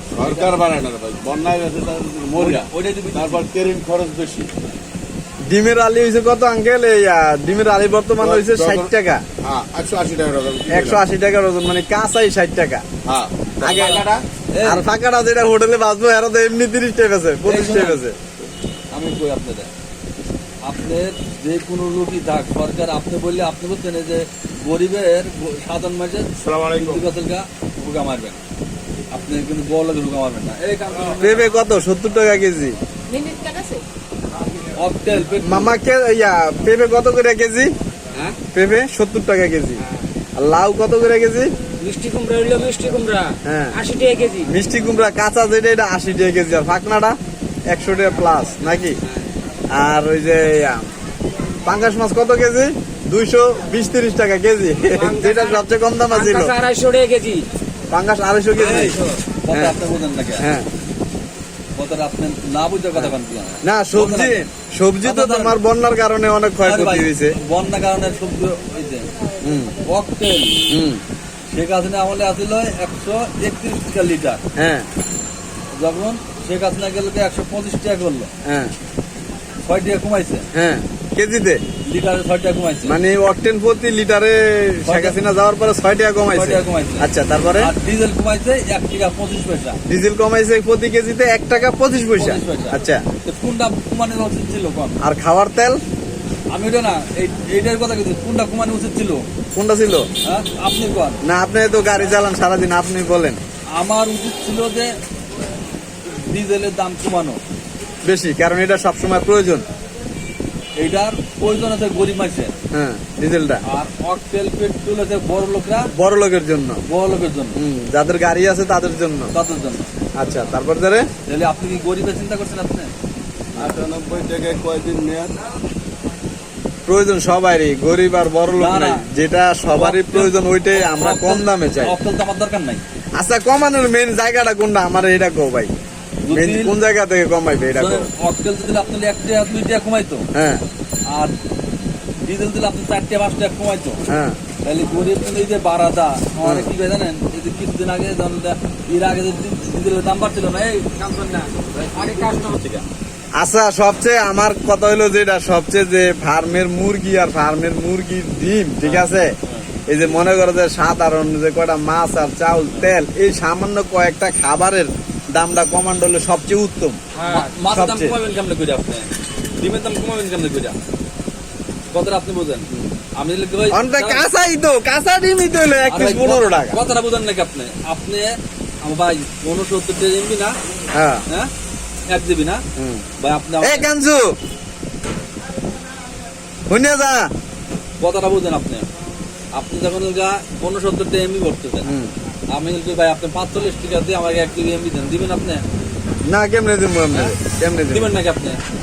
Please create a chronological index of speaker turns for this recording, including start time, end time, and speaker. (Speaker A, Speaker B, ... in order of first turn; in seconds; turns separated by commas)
Speaker A: 0.1-4.5, Speaker B: 0.2-0.6, Speaker B: 2.4-3.5, Speaker C: 5.5-9.2, Speaker A: 8.2-11.0, Speaker C: 10.7-12.8, Speaker A: 13.1-14.2, Speaker C: 13.6-14.0, Speaker B: 13.8-14.9, Speaker C: 14.6-18.2, Speaker B: 17.4-18.0, Speaker B: 18.9-19.7, Speaker B: 20.6-28.4, Speaker A: 26.4-27.0, Speaker B: 29.1-31.5, Speaker C: 31.2-32.8, Speaker D: 33.1-33.8, Speaker B: 34.8-35.8, Speaker C: 35.2-37.7, Speaker C: 38.5-39.8, Speaker C: 40.4-41.5, Speaker D: 41.8-44.5, Speaker C: 43.5-43.8, Speaker C: 44.4-47.2, Speaker C: 47.7-49.0, Speaker C: 49.7-50.9, Speaker C: 51.7-56.5, Speaker D: 54.9-57.5, Speaker C: 57.9-59.0, Speaker B: 58.5-60.5, Speaker D: 58.7-59.2, Speaker C: 59.5-59.8, Speaker C: 60.4-60.7, Speaker B: 61.8-64.4, Speaker C: 63.6-67.3, Speaker B: 65.0-65.6, Speaker B: 66.6-69.1, Speaker C: 69.4-69.8, Speaker B: 69.8-70.6, Speaker C: 70.7-71.0, Speaker B: 71.5-74.4, Speaker C: 74.6-74.9, Speaker B: 75.8-78.3, Speaker C: 78.5-78.7, Speaker B: 79.6-80.5, Speaker C: 80.5-81.6, Speaker B: 81.9-83.0, Speaker C: 82.8-87.7, Speaker B: 84.9-85.2, Speaker B: 86.3-89.8, Speaker C: 89.9-93.0, Speaker B: 92.2-95.0, Speaker C: 95.0-95.8, Speaker B: 96.5-99.2, Speaker C: 99.5-100.1, Speaker B: 100.2-101.2, Speaker C: 101.2-103.4, Speaker B: 103.8-105.0, Speaker B: 106.1-107.4, Speaker C: 108.0-109.7, Speaker B: 110.8-112.5, Speaker C: 112.7-113.6, Speaker B: 113.7-115.9, Speaker C: 115.9-116.8, Speaker B: 116.9-117.6, Speaker C: 117.6-119.3, Speaker B: 119.3-119.9, Speaker C: 120.2-121.1, Speaker B: 121.3-122.9, Speaker A: 123.6-125.4, Speaker C: 126.9-132.0, Speaker B: 128.6-129.1, Speaker B: 129.7-132.8, Speaker C: 133.2-135.7, Speaker B: 136.2-136.8, Speaker C: 136.3-138.1, Speaker B: 137.7-140.3, Speaker C: 140.3-140.6, Speaker B: 141.1-141.3, Speaker B: 142.2-144.0, Speaker C: 144.1-144.4, Speaker B: 144.6-152.9, Speaker C: 146.4-146.7, Speaker D: 151.9-152.6, Speaker C: 153.4-159.3, Speaker B: 158.8-159.7, Speaker C: 159.9-167.0, Speaker B: 162.7-162.9, Speaker D: 167.2-167.6, Speaker B: 167.2-170.8, Speaker C: 167.7-168.2, Speaker B: 171.9-174.2, Speaker C: 173.7-176.8, Speaker B: 175.9-180.6, Speaker C: 180.9-181.2, Speaker B: 182.1-182.6, Speaker C: 182.8-183.1, Speaker B: 183.2-183.9, Speaker C: 183.6-184.4, Speaker C: 186.7-187.3, Speaker B: 188.0-188.9, Speaker B: 189.5-191.9, Speaker C: 191.8-192.1, Speaker B: 192.5-195.6, Speaker C: 196.3-198.1, Speaker B: 197.9-198.6